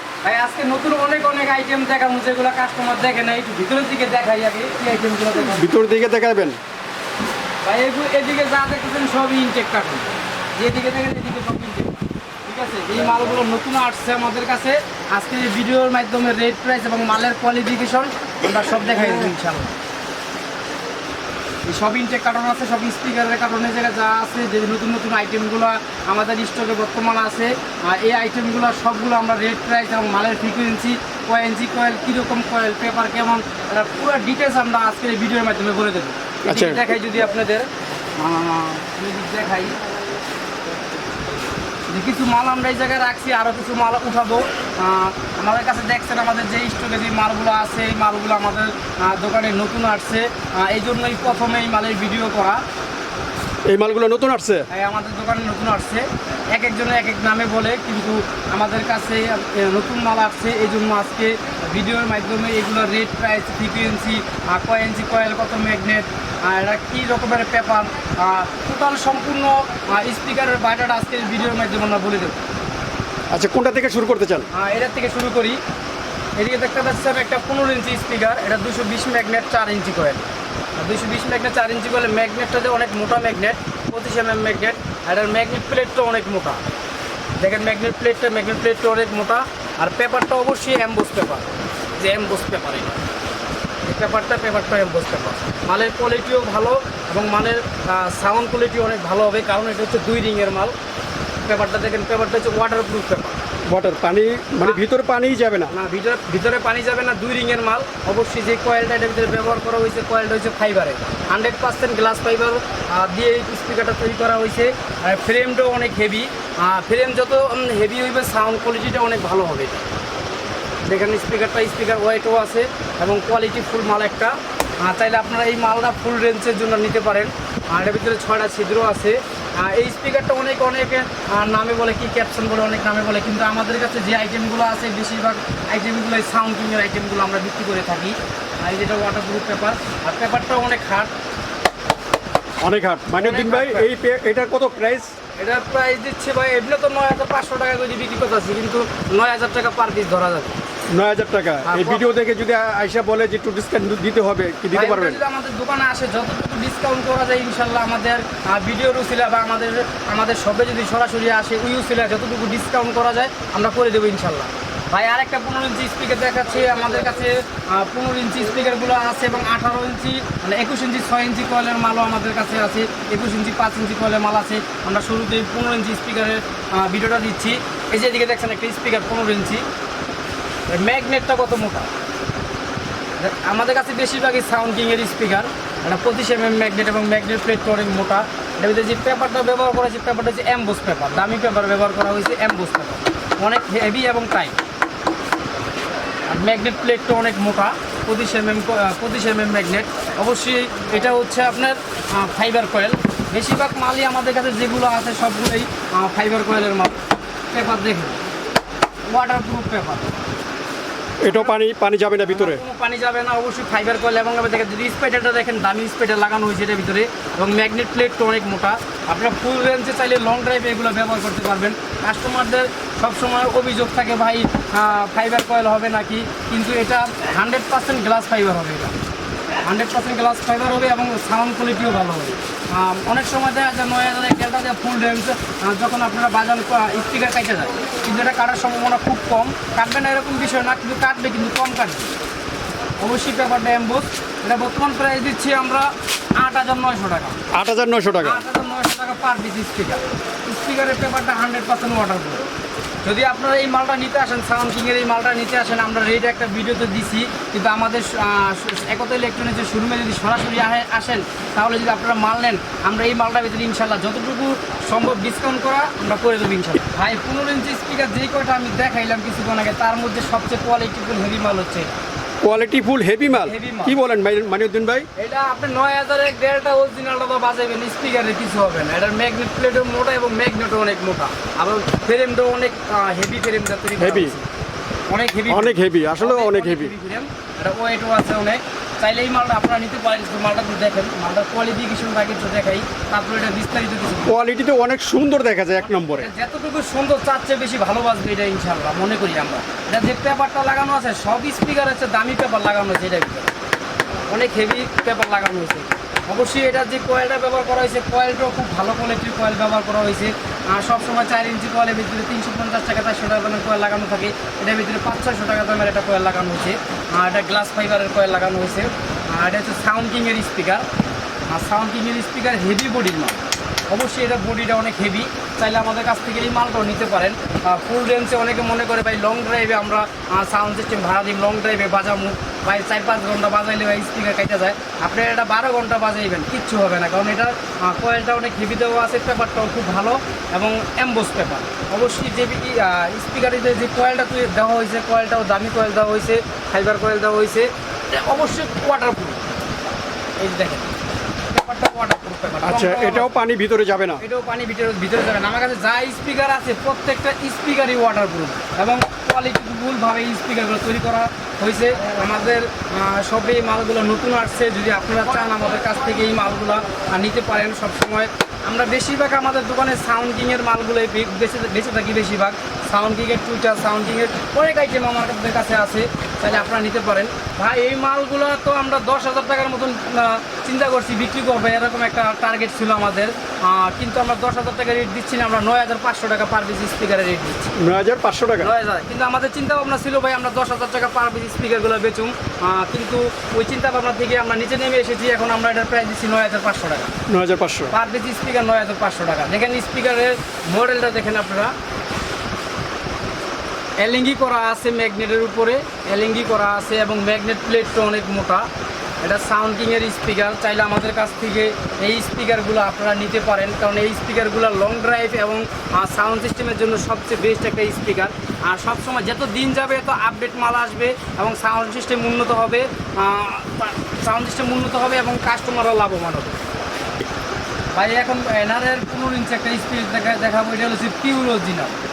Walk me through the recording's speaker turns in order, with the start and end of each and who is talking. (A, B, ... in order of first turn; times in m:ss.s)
0:00.2-0:05.7 A
0:05.5-0:06.6 B
0:07.6-0:19.7 A
0:21.6-0:39.8 A
0:36.4-0:36.8 B
0:41.9-0:52.6 A
0:53.6-0:54.7 B
0:54.7-1:12.4 A
1:13.3-1:14.5 B
1:14.5-1:15.6 A
1:16.4-1:26.6 A
1:27.4-1:31.5 A
1:32.0-1:33.0 A
1:33.8-1:40.7 A
1:41.4-1:43.4 A
1:43.7-1:45.7 B
1:45.7-1:59.8 A
2:00.9-2:21.1 A
2:22.6-2:25.1 B
2:23.2-2:23.9 A
2:25.4-2:30.6 A
2:30.9-2:35.2 B
2:31.6-2:32.1 A
2:34.7-2:59.6 A
3:00.7-3:01.9 A
3:03.2-3:14.6 A
3:16.3-3:27.0 A
3:27.5-3:28.2 A
3:29.1-3:30.1 A
3:31.2-3:32.6 B
3:31.2-3:31.5 A
3:32.3-3:48.9 A
3:49.6-4:02.1 A
4:03.0-4:07.4 A
4:07.5-4:08.4 B
4:08.2-4:12.4 A
4:13.0-4:32.0 A
4:32.4-4:35.1 B
4:33.4-4:34.0 A
4:35.2-4:44.4 A
4:44.0-4:44.4 B
4:45.1-4:54.4 A
4:45.5-4:46.9 B
4:54.2-4:56.3 B
4:55.8-5:03.5 A
5:04.3-5:20.8 A
5:21.5-5:49.4 A
5:50.4-5:50.9 A
5:51.5-5:53.3 A
5:52.6-5:54.2 B
5:54.2-6:27.7 A
6:27.8-6:28.7 B
6:28.6-6:37.1 A
6:37.3-6:37.9 B
6:37.9-6:41.7 A
6:44.0-6:48.7 A
6:49.2-7:06.6 A
7:07.9-7:11.9 A